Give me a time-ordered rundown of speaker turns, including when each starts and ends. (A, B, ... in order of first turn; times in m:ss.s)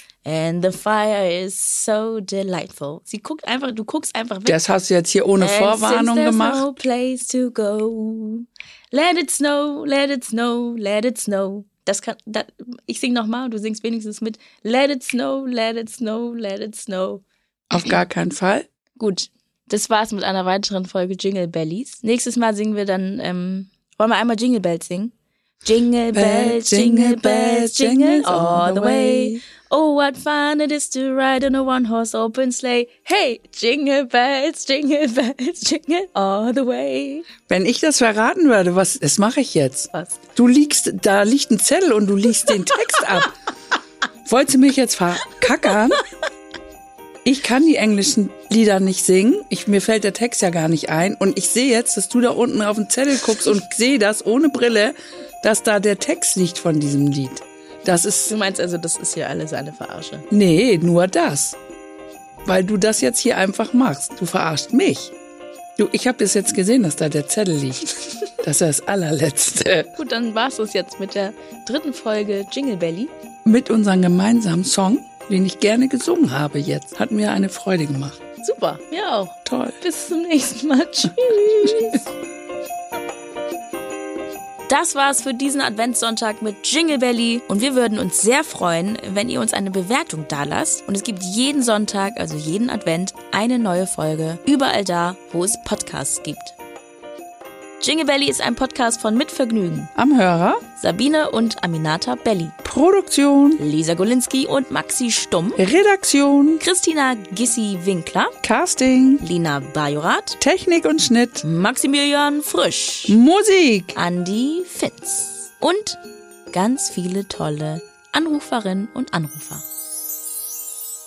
0:00.2-0:04.6 A
0:04.4-0:06.6 B
0:05.4-0:17.2 A
0:17.7-0:18.7 B
0:19.0-0:25.1 A
0:25.6-0:37.3 A
0:26.1-0:29.4 B
0:37.4-0:43.4 B
0:39.9-0:40.2 A
0:44.2-0:46.0 B
0:47.2-0:58.4 B
0:58.3-1:00.2 A
1:00.3-1:01.6 B
1:02.4-1:05.1 B
1:05.8-1:09.9 B
1:10.0-1:13.1 A
1:13.4-1:18.2 B
1:18.4-1:22.0 A
1:19.4-1:19.8 B
1:24.7-1:36.5 A
1:37.8-1:39.9 A
1:40.0-1:40.6 B
1:40.8-1:42.6 A
1:42.6-1:43.6 B
1:43.6-1:45.6 A
1:45.6-1:46.6 B
1:46.6-1:48.3 A
1:48.4-1:49.2 B
1:49.2-1:50.4 A
1:50.4-1:51.4 B
1:51.4-1:53.2 A
1:53.1-1:54.0 B
1:53.9-1:56.0 A
1:56.5-1:59.6 A